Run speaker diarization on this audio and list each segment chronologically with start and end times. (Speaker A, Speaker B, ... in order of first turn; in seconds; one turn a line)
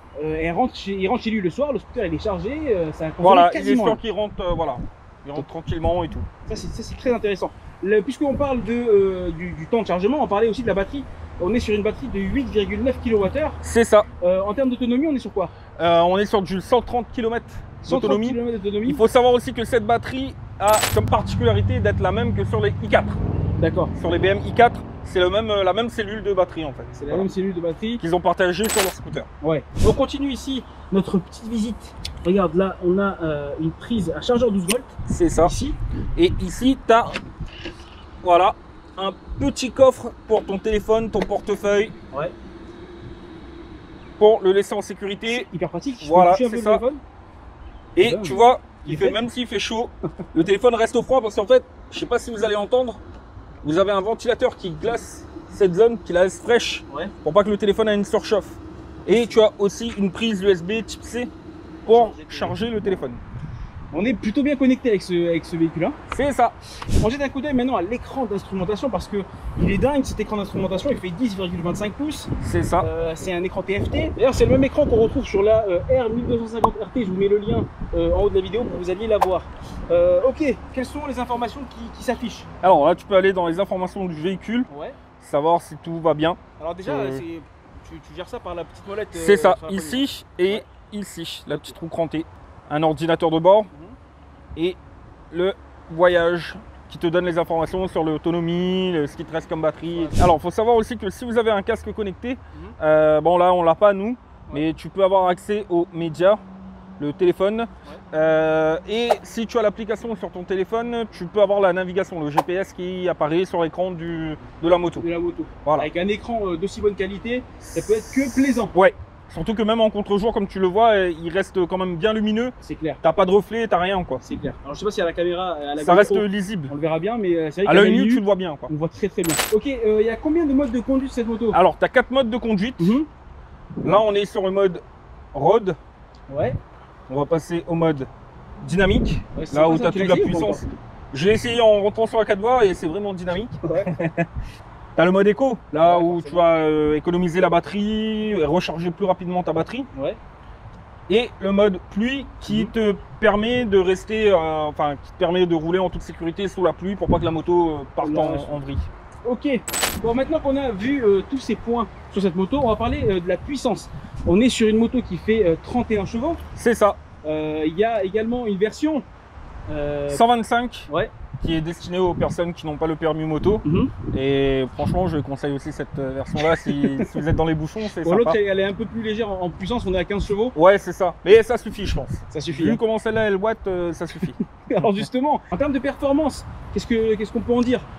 Speaker A: 0.2-4.0
Speaker B: 3.2-6.3
Speaker A: 6.5-13.6
Speaker B: 13.6-14.1
Speaker A: 14.2-15.5
Speaker B: 15.8-23.2
Speaker A: 17.8-19.0
Speaker A: 23.6-23.9
Speaker B: 23.9-27.3
Speaker A: 26.9-28.0
Speaker B: 28.0-29.3
Speaker A: 29.4-35.7
Speaker B: 35.1-35.5
Speaker B: 36.1-37.1
Speaker B: 38.2-41.9
Speaker B: 44.2-45.5
Speaker A: 45.3-47.0
Speaker B: 46.0-46.8
Speaker B: 48.0-53.0
Speaker A: 48.0-49.2
Speaker B: 53.6-61.3
Speaker B: 61.8-63.2
Speaker A: 61.9-62.6
Speaker A: 63.9-66.0
Speaker B: 66.1-66.5
Speaker A: 67.0-82.5
Speaker B: 72.4-72.9
Speaker B: 82.6-84.7
Speaker A: 84.7-85.0
Speaker B: 85.2-87.2
Speaker A: 86.6-90.6
Speaker B: 89.1-93.7
Speaker B: 95.3-106.4
Speaker A: 99.9-100.2
Speaker B: 107.0-115.0
Speaker A: 115.0-118.7
Speaker B: 117.6-124.2
Speaker A: 122.6-123.0
Speaker A: 124.2-131.6
Speaker B: 125.8-126.7
Speaker B: 127.7-128.7
Speaker B: 131.5-132.9
Speaker A: 132.8-133.1
Speaker B: 133.8-134.8
Speaker B: 135.3-135.8
Speaker A: 136.3-136.6
Speaker B: 137.1-138.1
Speaker B: 138.6-144.2
Speaker A: 139.3-140.7
Speaker A: 143.6-143.9
Speaker B: 145.0-149.9
Speaker A: 145.8-146.4
Speaker A: 149.9-150.2
Speaker B: 151.1-158.9
Speaker A: 152.5-152.7
Speaker A: 158.0-158.5
Speaker A: 159.2-166.4
Speaker B: 166.6-167.0
Speaker A: 167.2-169.0
Speaker A: 169.7-170.2
Speaker B: 170.1-178.4
Speaker A: 170.9-171.1
Speaker A: 173.6-173.9
Speaker A: 176.4-177.1
Speaker A: 177.9-180.5
Speaker B: 180.5-184.4
Speaker A: 182.3-182.8
Speaker A: 184.7-187.9